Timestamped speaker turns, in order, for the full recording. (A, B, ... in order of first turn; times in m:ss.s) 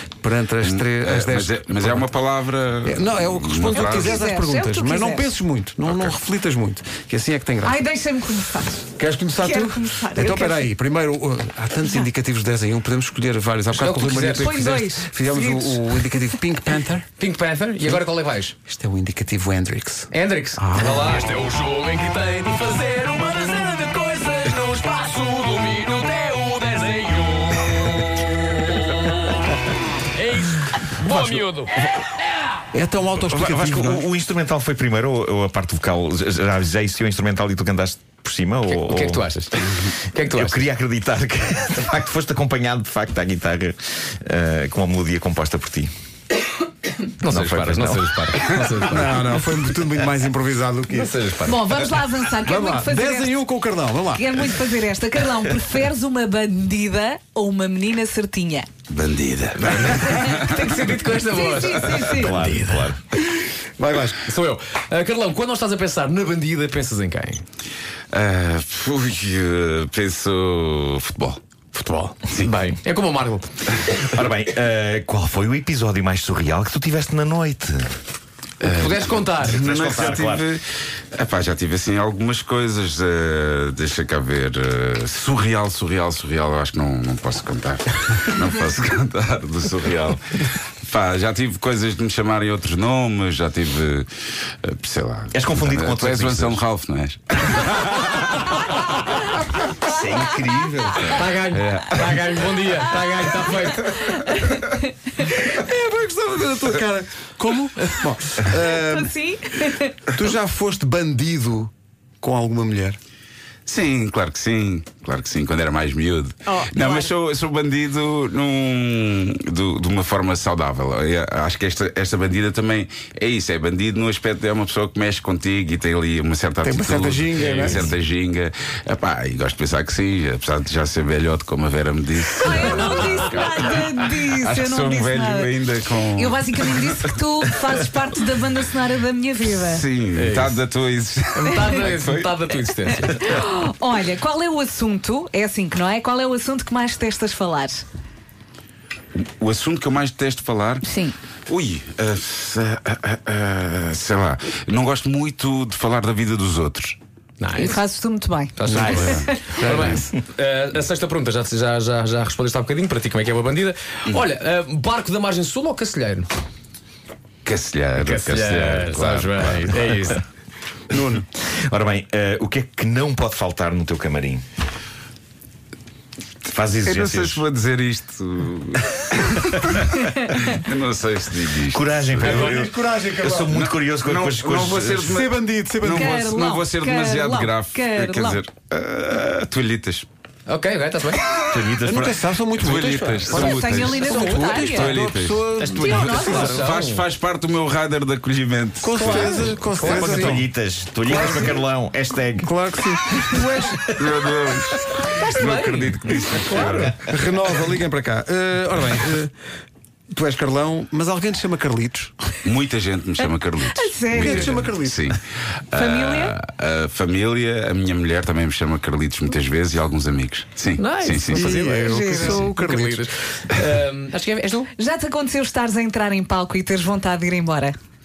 0:00.2-0:02.1 A
0:00.6-0:04.2 B
0:02.8-0:07.8 A
0:03.7-0:05.3 C
0:05.9-0:06.1 B
0:07.6-0:08.9 C
0:08.9-0:17.1 A
0:09.4-0:10.7 C
0:13.7-0:14.7 D
0:14.4-0:16.4 C
0:17.2-0:18.6 D
0:18.7-0:21.1 A
0:20.1-0:28.2 D
0:30.1-0:31.7 D
0:32.7-0:34.0 A
0:33.2-0:39.3 E
0:38.7-0:40.6 D
0:40.2-0:45.9 E
0:47.2-0:49.3 D
0:47.2-0:48.1 E
0:48.8-0:51.1 A
0:50.9-0:51.6 D
0:51.4-0:53.4 C
0:52.4-0:54.6 A
0:54.1-0:58.7 C
0:58.9-1:01.2 B
0:59.6-1:02.9 D
1:01.2-1:02.4 C
1:02.0-1:03.0 E
1:03.8-1:04.2 A
1:04.2-1:07.4 D
1:08.1-1:11.4 B
1:11.7-1:13.7 D
1:14.0-1:17.9 E
1:18.6-1:19.6 D
1:18.6-1:38.4 B
1:19.3-1:20.5 E
1:35.3-1:36.6 E
1:39.8-1:41.2 E
1:41.1-1:44.0 D
1:41.5-1:42.4 B
1:44.2-1:44.6 C
1:45.2-1:49.1 A
1:48.6-1:50.0 C
1:50.1-1:53.0 A
1:53.6-2:17.7 B
1:56.5-1:57.1 C
2:06.6-2:07.8 A
2:07.4-2:07.9 D
2:12.4-2:15.5 C
2:12.4-2:13.3 D
2:16.1-2:19.8 C
2:19.6-2:22.6 B
2:20.1-2:20.6 D
2:21.3-2:23.4 D
2:23.1-2:27.8 C
2:29.1-2:30.8 B
2:30.8-2:31.2 C
2:31.5-2:37.0 B
2:37.4-2:37.8 D
2:37.6-2:38.5 C
2:38.6-2:46.3 D
2:38.6-2:40.0 A
2:39.0-2:40.0 B
2:47.4-2:50.1 B
2:48.0-2:50.2 D
2:50.9-2:51.2 A
2:51.6-2:54.4 E
2:56.4-2:57.4 E
2:56.8-3:02.5 B
3:01.7-3:05.1 E
3:02.2-3:03.5 A
3:03.5-3:10.1 B
3:05.1-3:06.2 A
3:05.8-3:08.4 C
3:10.5-3:11.2 D
3:11.5-3:12.3 E
3:11.8-3:16.7 A
3:12.6-3:19.6 B
3:13.1-3:13.5 D
3:13.4-3:15.0 C
3:15.6-3:17.0 D
3:15.7-3:16.1 C
3:18.8-3:20.5 A
3:19.0-3:20.4 D
3:19.7-3:22.5 E
3:21.1-3:21.6 A
3:21.1-3:21.5 D
3:22.4-3:23.9 A
3:23.9-3:27.0 B
3:24.8-3:26.9 D
3:26.5-3:29.3 A
3:30.1-3:32.1 A
3:32.4-3:35.2 B
3:33.7-3:34.5 C
3:34.1-3:35.1 A
3:35.7-3:41.6 B
3:35.7-3:36.4 C
3:40.8-3:44.7 D
3:41.3-3:43.0 A
3:41.7-3:42.5 C
3:44.8-3:47.8 C